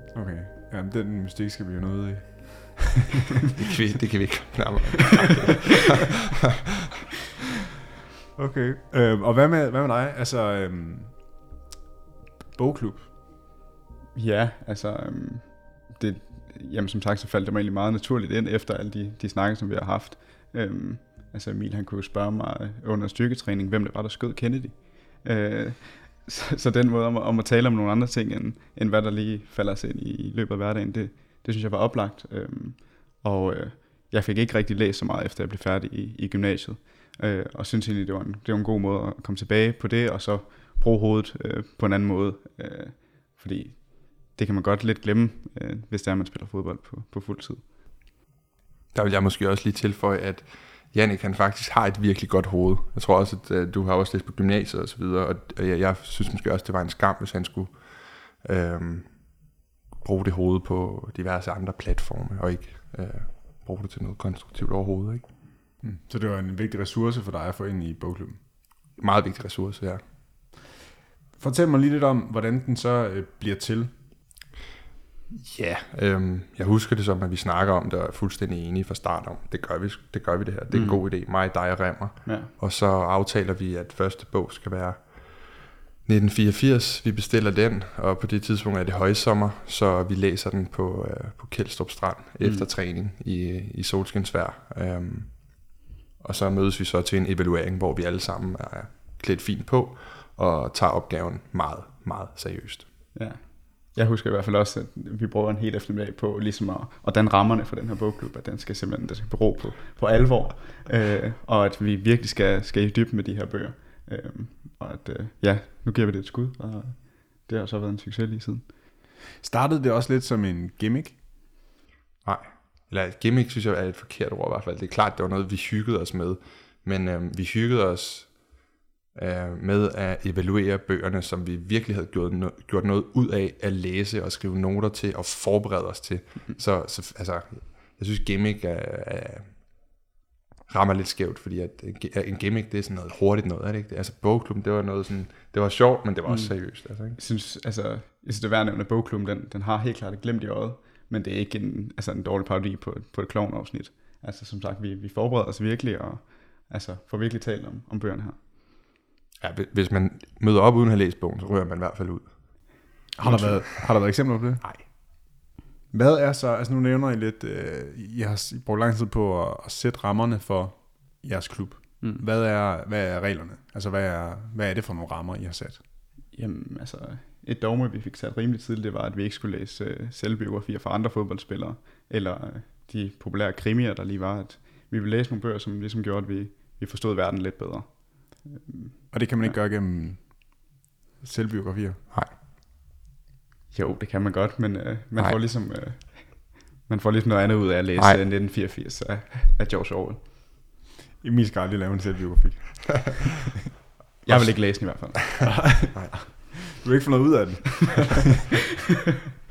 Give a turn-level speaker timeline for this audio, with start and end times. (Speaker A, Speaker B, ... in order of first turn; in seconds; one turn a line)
Speaker A: 0.1-3.1
Speaker B: 3.6-6.1
Speaker A: 8.4-11.2
Speaker A: 12.6-13.1
Speaker C: 14.2-47.7
Speaker B: 48.9-59.1
Speaker B: 60.0-65.3
Speaker A: 65.8-68.4
Speaker B: 69.0-70.0
Speaker A: 71.4-73.9
Speaker B: 75.3-85.5
Speaker C: 80.7-81.0
Speaker B: 86.0-95.6
Speaker C: 92.4-92.7
Speaker B: 96.2-102.9
Speaker C: 103.2-118.7
Speaker A: 119.4-121.2
Speaker B: 122.2-128.3
Speaker B: 129.1-139.5
Speaker B: 140.7-147.2
Speaker C: 146.3-146.5
Speaker C: 147.2-158.4
Speaker B: 159.4-162.4
Speaker A: 163.2-164.6
Speaker B: 163.2-163.9
Speaker A: 165.9-175.8
Speaker C: 176.3-189.6
Speaker A: 189.1-190.6
Speaker A: 191.2-192.0
Speaker C: 193.7-200.2
Speaker A: 201.2-203.4
Speaker C: 204.2-205.6
Speaker B: 204.3-205.2
Speaker A: 205.4-208.4